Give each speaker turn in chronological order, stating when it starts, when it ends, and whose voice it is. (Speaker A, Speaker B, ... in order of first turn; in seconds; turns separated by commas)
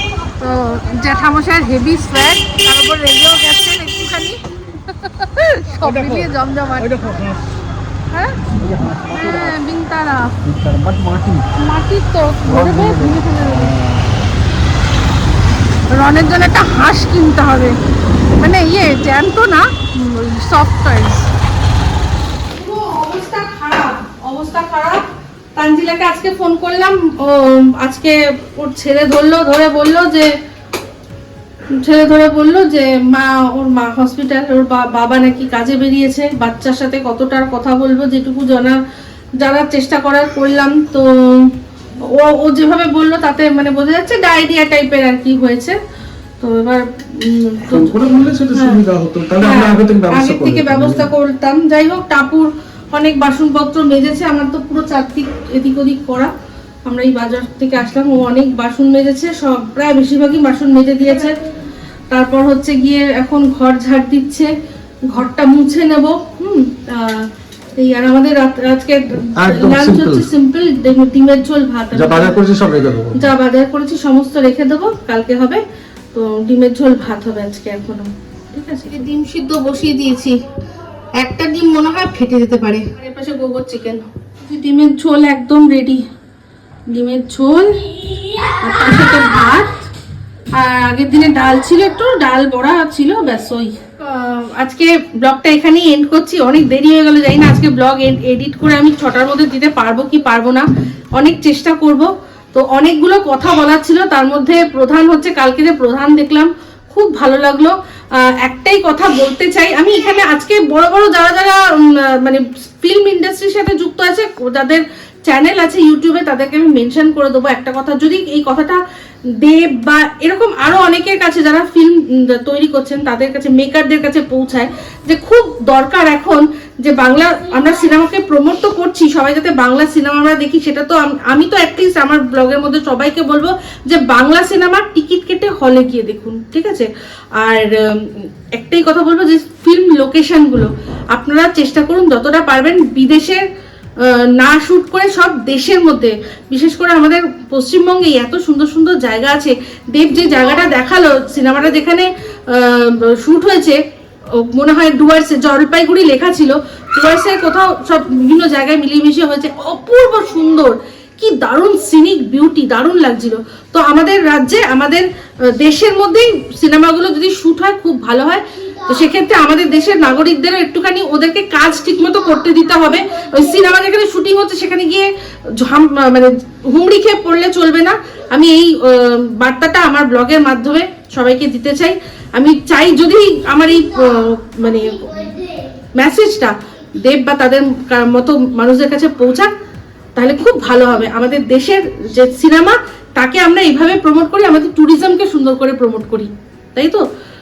Speaker A: 0.4-7.0, Speaker B: 5.8-7.4, Speaker A: 8.1-8.4, Speaker B: 8.5-9.6, Speaker A: 9.1-10.3, Speaker B: 10.4-11.4, Speaker A: 11.6-13.7, Speaker B: 12.4-14.2, Speaker A: 15.9-17.8, Speaker A: 18.4-21.3, Speaker A: 22.6-25.0, Speaker A: 25.6-30.3, Speaker A: 31.7-38.8, Speaker A: 39.4-41.5, Speaker A: 42.0-45.8, Speaker A: 46.4-48.8, Speaker B: 47.7-51.1, Speaker A: 49.4-56.3, Speaker A: 56.9-61.3, Speaker A: 62.1-64.5, Speaker A: 65.1-72.4, Speaker B: 69.4-70.3, Speaker B: 71.9-73.3, Speaker A: 73.1-75.6, Speaker A: 76.1-80.4, Speaker A: 81.2-86.0, Speaker A: 86.9-89.8, Speaker A: 90.5-100.6, Speaker A: 101.2-118.8, Speaker A: 119.4-143.4, Speaker A: 144.0-153.8, Speaker A: 154.3-185.4, Speaker A: 185.9-189.5, Speaker A: 190.2-197.0